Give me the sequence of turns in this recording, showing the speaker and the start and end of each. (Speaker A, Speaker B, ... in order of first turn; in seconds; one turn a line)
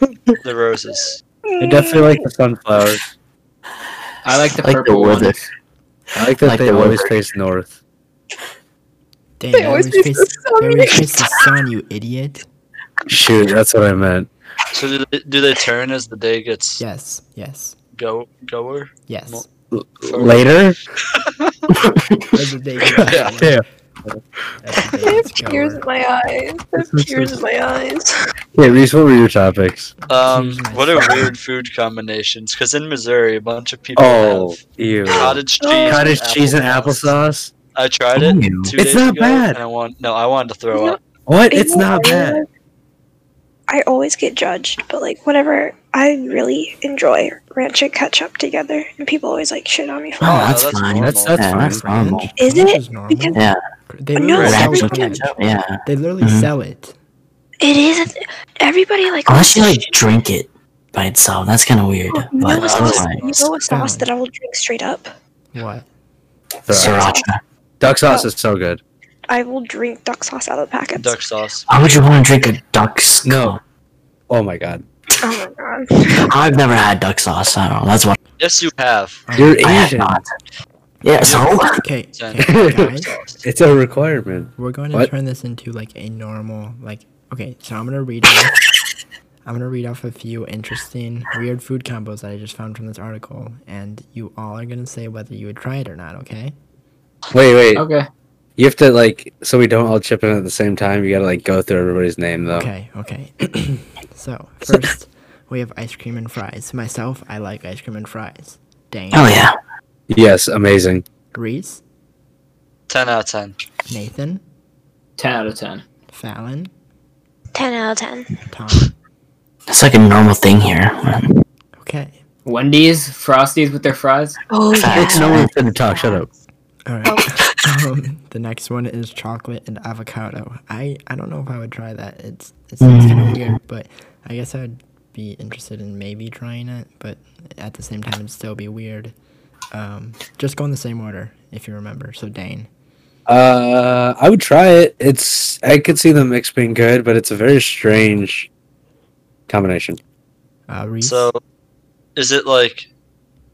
Speaker A: 0.4-1.2
Speaker B: 1.5-2.2
Speaker C: 1.6-3.0
Speaker D: 4.2-5.5
Speaker E: 4.6-5.4
Speaker C: 6.1-7.7
Speaker E: 6.4-7.1
Speaker F: 9.4-12.4
Speaker B: 9.5-11.5
Speaker C: 13.1-14.3
Speaker A: 14.7-16.8
Speaker F: 16.8-17.8
Speaker A: 17.9-19.4
Speaker F: 19.1-19.4
Speaker C: 19.7-20.8
Speaker D: 20.0-20.4
Speaker A: 21.2-21.5
Speaker F: 22.3-23.6
Speaker C: 22.9-24.2
Speaker A: 23.0-23.4
Speaker F: 24.6-25.8
Speaker B: 25.0-28.1
Speaker C: 26.8-27.4
Speaker C: 28.6-29.9
Speaker F: 30.0-31.3
Speaker A: 30.1-37.1
Speaker C: 34.0-37.5
Speaker B: 35.1-36.1
Speaker A: 37.7-41.0
Speaker E: 38.1-38.8
Speaker C: 38.8-39.6
Speaker B: 40.7-41.0
Speaker C: 41.3-42.4
Speaker B: 41.5-42.5
Speaker B: 43.7-50.6
Speaker E: 50.2-52.3
Speaker A: 50.2-51.5
Speaker C: 51.0-51.8
Speaker F: 51.6-57.0
Speaker B: 52.4-53.4
Speaker E: 53.3-53.6
Speaker B: 54.1-55.2
Speaker A: 54.3-54.7
Speaker E: 54.4-56.5
Speaker B: 57.6-59.9
Speaker E: 59.2-63.4
Speaker B: 62.1-65.1
Speaker A: 62.5-63.5
Speaker F: 63.7-64.1
Speaker F: 65.5-65.8
Speaker C: 66.7-67.0
Speaker E: 66.7-67.4
Speaker B: 66.7-67.2
Speaker C: 67.8-68.8
Speaker B: 69.3-71.2
Speaker A: 71.0-71.7
Speaker E: 71.7-73.6
Speaker C: 73.2-73.6
Speaker C: 74.3-74.8
Speaker B: 75.2-76.3
Speaker E: 76.3-78.2
Speaker A: 78.4-79.2
Speaker F: 79.3-79.8
Speaker C: 79.3-80.2
Speaker E: 79.6-80.3
Speaker E: 81.0-81.8
Speaker F: 81.2-83.1
Speaker A: 81.2-83.5
Speaker C: 82.4-82.9
Speaker C: 83.4-85.1
Speaker F: 84.6-88.6
Speaker F: 89.5-96.5
Speaker C: 97.3-97.8
Speaker D: 97.7-98.0
Speaker C: 98.6-102.7
Speaker F: 102.5-109.5
Speaker E: 109.1-109.5
Speaker C: 110.1-111.0
Speaker F: 111.3-111.8
Speaker A: 112.9-113.6
Speaker F: 113.9-114.4
Speaker D: 115.2-115.8
Speaker F: 116.1-116.7
Speaker B: 117.5-118.3
Speaker F: 118.5-118.9
Speaker E: 119.7-121.3
Speaker F: 121.8-122.2
Speaker D: 122.4-124.4
Speaker B: 124.5-126.2
Speaker E: 124.8-125.7
Speaker C: 124.9-126.3
Speaker F: 126.8-139.1
Speaker B: 127.0-127.3
Speaker E: 132.8-133.6
Speaker F: 139.7-142.7
Speaker C: 143.3-148.5
Speaker C: 149.5-150.0
Speaker F: 150.7-151.3
Speaker A: 151.0-151.4
Speaker A: 152.2-152.9